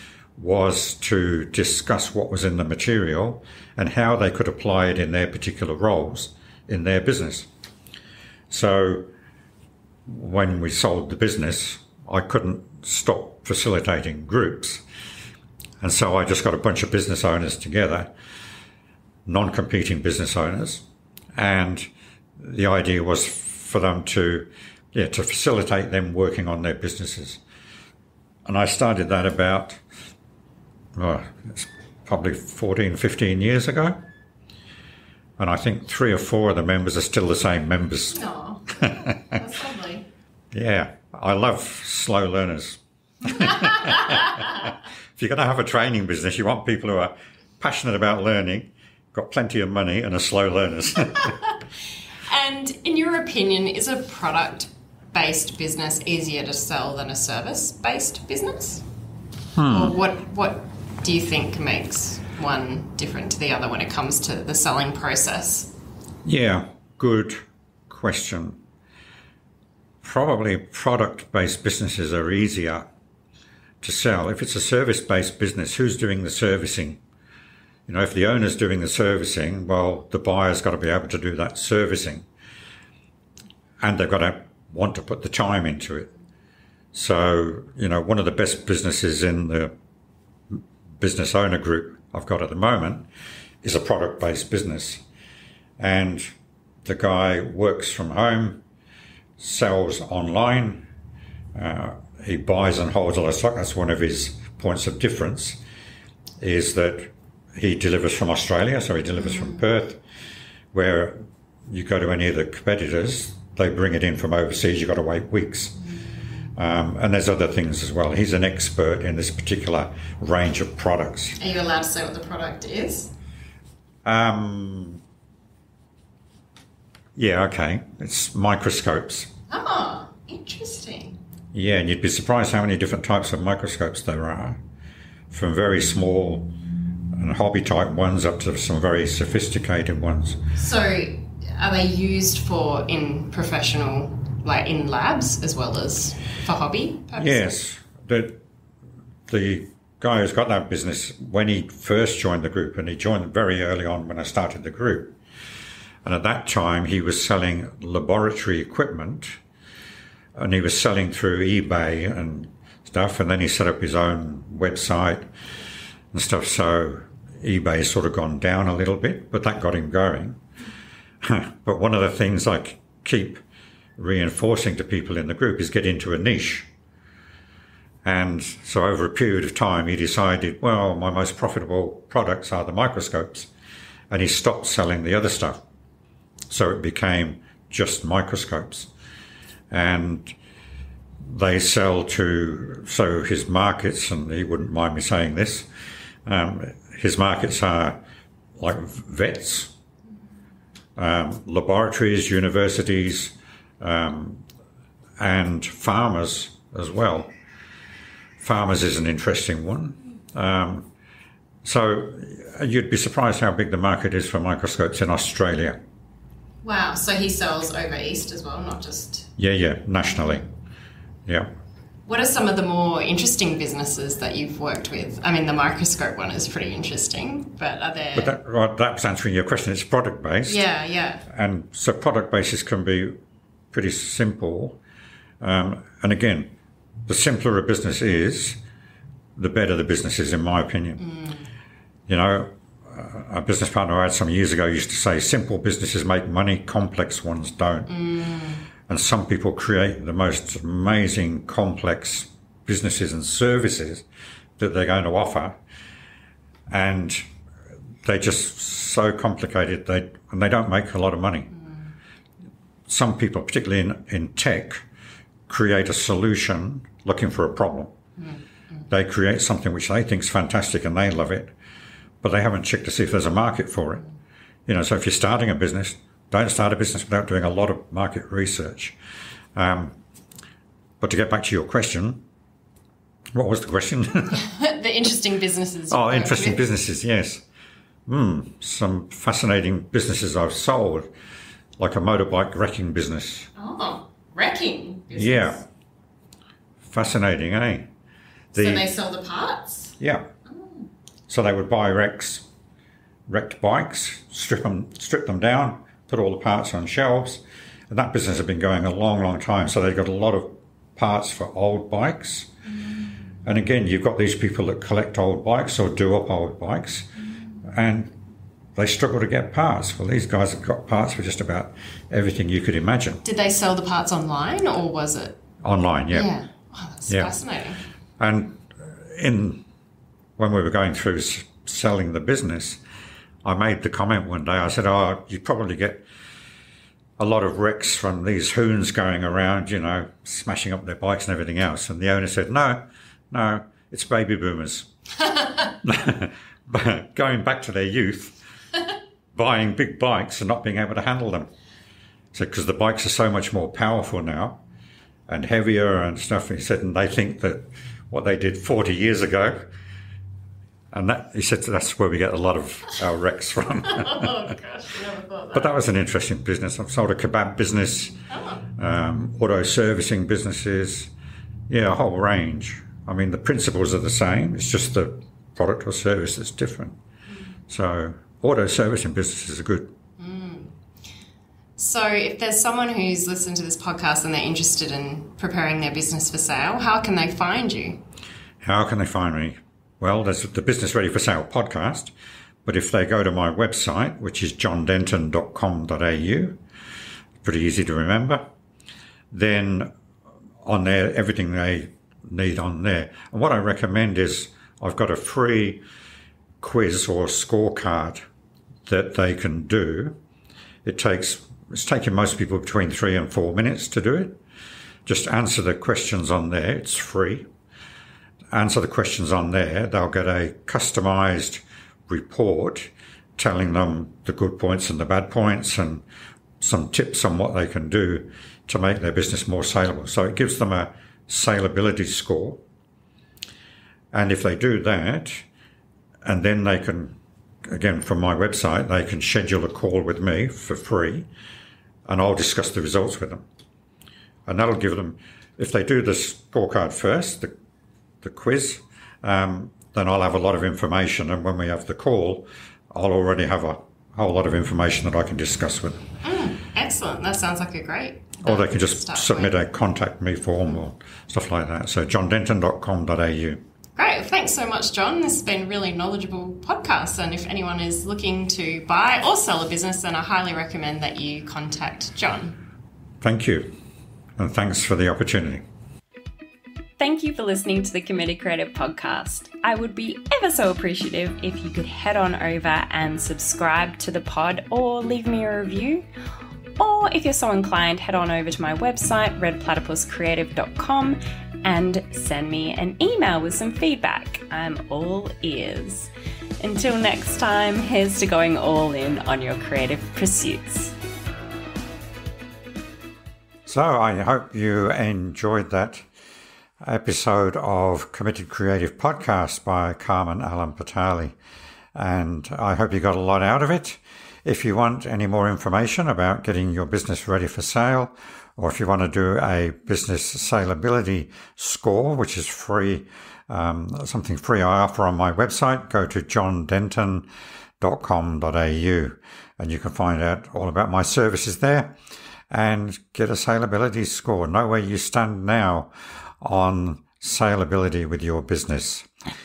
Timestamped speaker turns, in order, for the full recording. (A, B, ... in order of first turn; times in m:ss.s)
0:00.4-0:07.5 A
0:08.5-0:09.1 A
0:10.1-0:14.8 A
0:15.8-0:18.1 A
0:19.2-0:20.8 A
0:21.4-0:27.4 A
0:28.4-0:29.8 A
0:30.9-0:34.0 A
0:35.4-0:38.2 A
0:38.1-0:40.1 B
0:38.8-0:39.1 A
0:40.5-0:51.3 A
0:43.3-0:44.6 B
0:51.2-0:51.5 B
0:52.3-0:58.8 B
0:59.5-1:00.0 A
0:59.7-1:05.7 B
1:06.2-1:08.6 A
1:10.0-1:12.9 A
1:13.8-1:17.0 A
1:17.9-1:22.2 A
1:23.8-1:26.1 A
1:26.9-1:29.7 A
1:30.5-1:33.1 A
1:33.6-1:35.0 A
1:35.8-1:36.3 A
1:36.8-1:38.6 A
1:39.4-1:40.8 A
1:41.5-1:45.6 A
1:46.4-1:50.0 A
1:49.3-1:49.6 B
1:50.7-1:55.8 A
1:56.5-2:01.4 A
2:01.4-2:03.1 B
2:04.0-2:05.0 A
2:07.2-2:09.3 A
2:09.5-2:11.2 B
2:11.5-2:14.6 A
2:15.3-2:16.5 A
2:17.1-2:20.4 A
2:20.5-2:27.6 B
2:27.2-2:28.4 A
2:29.3-2:35.2 A
2:36.0-2:39.3 A
2:40.4-2:45.3 A
2:46.1-2:50.4 A
2:51.2-2:53.4 A
2:54.0-2:56.7 A
2:58.0-3:03.5 A
3:04.1-3:05.6 A
3:06.5-3:08.9 A
3:09.7-3:10.3 A
3:11.2-3:15.7 A
3:16.2-3:18.0 A
3:18.6-3:19.7 A
3:21.0-3:24.4 A
3:25.2-3:27.3 A
3:28.4-3:30.9 A
3:31.6-3:35.8 A
3:36.6-3:39.3 B
3:39.4-3:40.4 A
3:42.1-3:48.3 B
3:48.1-3:50.6 A
3:50.4-3:51.2 B
3:51.3-3:53.2 A
3:53.7-3:54.8 A
3:55.4-3:56.5 A
3:57.1-3:58.6 A
3:59.4-4:01.0 A
4:01.0-4:01.4 B
4:02.1-4:07.9 A
4:07.9-4:08.6 B
4:08.9-4:14.0 A
4:14.6-4:15.6 A
4:16.7-4:17.2 A
4:18.0-4:21.5 A
4:22.9-4:24.8 A
4:25.5-4:27.9 A
4:28.9-4:31.5 A
4:32.2-4:34.0 A
4:34.7-4:39.0 A
4:39.5-4:40.0 A
4:41.0-4:42.2 A
4:43.3-4:44.4 A
4:44.3-4:46.6 B
4:45.9-4:47.4 A
4:48.1-4:51.1 A
4:51.8-4:53.5 A
4:53.6-4:55.6 B
4:55.1-4:55.6 A
4:56.8-4:57.9 A
4:58.5-4:58.9 A
4:58.5-4:59.9 B
5:00.0-5:00.3 A
5:00.5-5:00.9 B
5:01.3-5:02.5 A
5:03.3-5:12.5 A
5:13.4-5:17.1 A
5:17.6-5:18.1 A
5:18.8-5:23.2 A
5:23.2-5:25.4 B
5:25.6-5:26.3 A
5:26.1-5:27.8 B
5:28.2-5:29.6 A
5:30.4-5:32.8 A
5:33.4-5:36.0 A
5:37.2-5:44.9 A
5:45.8-5:48.4 A
5:49.3-5:51.5 A
5:52.3-5:54.6 A
5:55.3-5:59.7 A
6:00.9-6:04.3 A
6:03.8-6:05.8 B
6:05.5-6:11.1 A
6:08.3-6:08.6 B
6:11.7-6:17.0 A
6:17.7-6:19.9 A
6:20.2-6:20.7 B
6:21.8-6:28.0 B
6:28.6-6:32.1 A
6:32.6-6:36.6 A
6:37.4-6:38.4 A
6:39.3-6:39.9 A
6:40.6-6:45.8 A
6:46.6-6:48.2 A
6:48.8-6:50.2 A
6:50.8-6:54.4 A
6:55.0-6:57.5 A
6:58.5-7:06.0 A
7:06.6-7:12.6 A
7:14.1-7:15.4 A
7:16.2-7:21.3 A
7:22.0-7:23.4 A
7:24.5-7:27.5 A
7:28.2-7:36.0 A
7:36.2-7:39.6 B
7:38.4-7:43.6 A
7:44.0-7:52.6 B
7:53.2-7:53.7 A
7:54.4-7:55.6 A
7:57.0-8:06.0 B
8:06.8-8:20.9 B
8:23.6-8:26.0 A
8:26.8-8:31.3 A
8:31.9-8:47.3 A
8:47.8-8:52.0 A
8:52.5-8:59.1 A